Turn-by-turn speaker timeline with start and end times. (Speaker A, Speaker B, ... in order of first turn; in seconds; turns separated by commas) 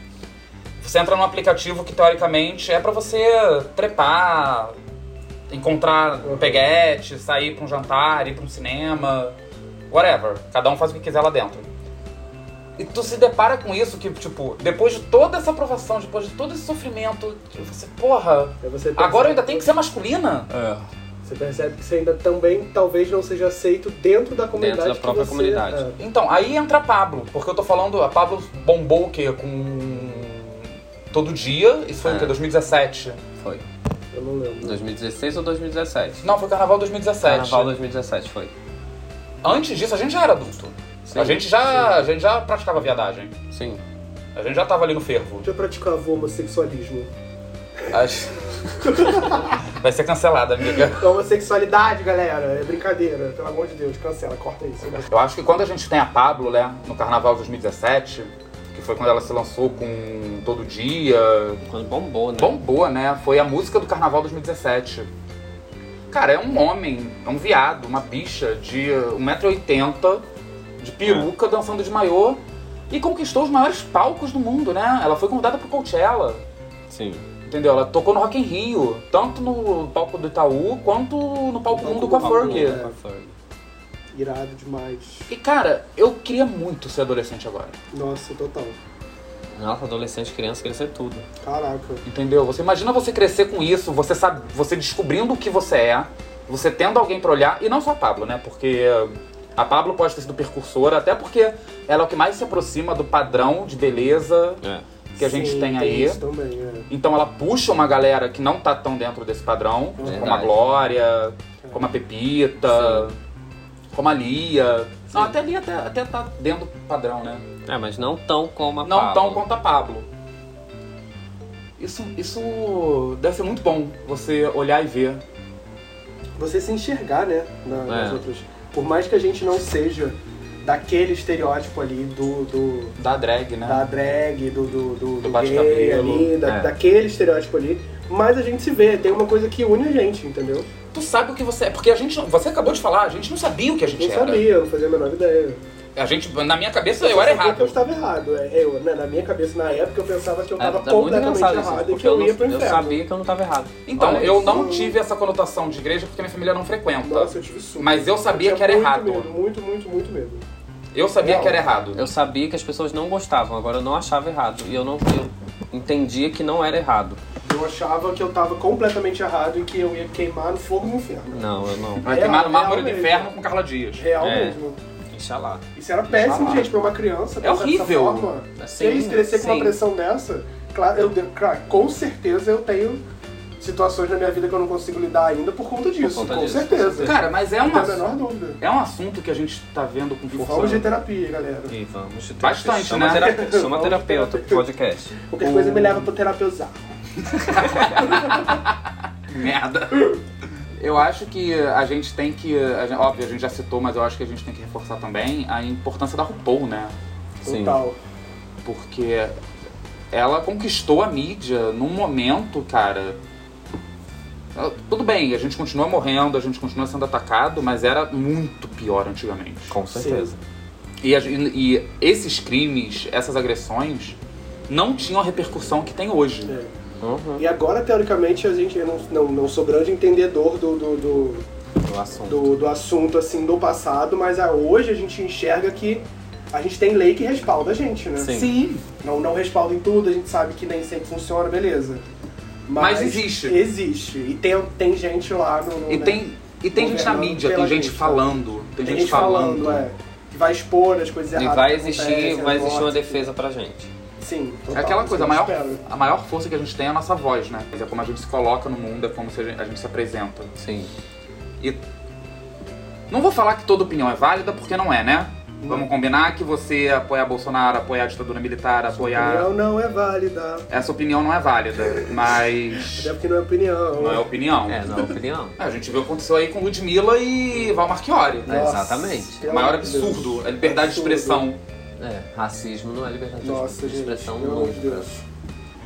Speaker A: 0.8-4.8, Speaker A: 5.5-9.4, Speaker B: 6.2-6.6, Speaker A: 9.9-11.7, Speaker A: 12.8-20.5, Speaker B: 18.6-19.7, Speaker C: 20.5-20.9, Speaker B: 21.2-26.0, Speaker C: 24.6-25.9, Speaker A: 26.0-33.2, Speaker C: 32.0-32.4, Speaker C: 33.4-33.6, Speaker B: 34.1-34.8, Speaker C: 34.6-36.2, Speaker A: 36.2-37.7, Speaker C: 37.2-38.5, Speaker A: 39.4-43.4, Speaker C: 41.1-41.4, Speaker C: 43.5-43.8, Speaker A: 44.4-45.5, Speaker B: 45.4-47.1, Speaker A: 47.9-48.3, Speaker B: 48.8-49.5, Speaker A: 49.1-51.1, Speaker B: 50.8-55.1, Speaker A: 55.0-61.6, Speaker C: 61.6-62.6, Speaker A: 62.4-65.1, Speaker A: 66.1-70.3, Speaker A: 70.8-76.5, Speaker C: 76.9-77.2, Speaker A: 77.5-82.8, Speaker B: 81.7-83.0, Speaker C: 81.8-83.3, Speaker B: 84.1-85.3, Speaker A: 85.3-87.8, Speaker B: 87.9-88.8, Speaker C: 89.5-91.3, Speaker B: 91.4-92.0, Speaker A: 92.1-104.6, Speaker A: 105.2-106.2, Speaker B: 105.2-106.9, Speaker A: 106.9-113.2, Speaker B: 110.0-110.4, Speaker C: 110.0-110.6, Speaker C: 112.7-113.1, Speaker A: 113.9-117.5, Speaker C: 117.7-119.5, Speaker A: 118.8-120.1, Speaker A: 121.8-125.2, Speaker B: 126.4-133.0, Speaker C: 127.9-128.2, Speaker A: 133.0-133.8, Speaker B: 133.6-140.7, Speaker A: 135.2-136.3, Speaker C: 136.4-136.7, Speaker A: 140.9-144.4, Speaker B: 143.9-145.6, Speaker A: 146.0-147.8, Speaker B: 147.0-153.0, Speaker C: 150.6-154.5, Speaker A: 153.9-159.3, Speaker B: 154.4-154.9, Speaker B: 157.0-160.4, Speaker A: 160.9-162.1, Speaker B: 161.2-161.6, Speaker C: 161.9-167.2, Speaker B: 167.4-171.5, Speaker C: 171.3-172.1, Speaker B: 172.0-173.3, Speaker A: 172.0-174.1, Speaker B: 174.0-174.8, Speaker C: 174.2-174.6, Speaker C: 175.1-175.6, Speaker B: 175.8-183.0, Speaker A: 176.1-176.7, Speaker A: 177.4-178.3, Speaker C: 178.6-179.8, Speaker B: 183.6-188.6, Speaker C: 186.0-187.2, Speaker A: 187.0-190.9, Speaker B: 190.3-191.7, Speaker C: 191.7-195.2, Speaker A: 192.4-193.4, Speaker B: 193.1-194.6, Speaker B: 195.2-196.9, Speaker A: 195.4-196.0, Speaker A: 197.4-206.9, Speaker B: 197.6-198.6, Speaker B: 207.4-208.0, Speaker C: 207.4-207.8, Speaker A: 208.6-209.4, Speaker A: 210.1-213.2, Speaker A: 214.5-219.8, Speaker C: 219.7-220.4, Speaker B: 219.9-220.3, Speaker A: 221.0-224.2, Speaker A: 224.7-226.5, Speaker B: 226.5-226.7, Speaker C: 227.0-227.4, Speaker B: 227.4-231.5, Speaker C: 231.8-232.5, Speaker B: 232.3-238.4, Speaker C: 238.2-238.5, Speaker A: 238.3-238.9, Speaker B: 239.0-242.0, Speaker B: 242.7-246.2, Speaker A: 242.8-243.6, Speaker A: 245.9-249.9, Speaker B: 246.7-248.3, Speaker B: 248.8-253.3, Speaker C: 251.3-253.9, Speaker B: 254.2-255.8, Speaker A: 254.7-260.5, Speaker C: 260.6-260.9, Speaker A: 263.1-269.5, Speaker B: 265.6-265.9, Speaker B: 269.0-270.7, Speaker A: 270.7-273.1, Speaker B: 272.8-274.2, Speaker A: 274.0-274.9, Speaker C: 274.7-275.6, Speaker A: 275.6-278.7, Speaker C: 278.5-279.4, Speaker B: 278.5-281.4, Speaker A: 279.4-281.6, Speaker C: 282.0-285.1, Speaker B: 283.4-285.2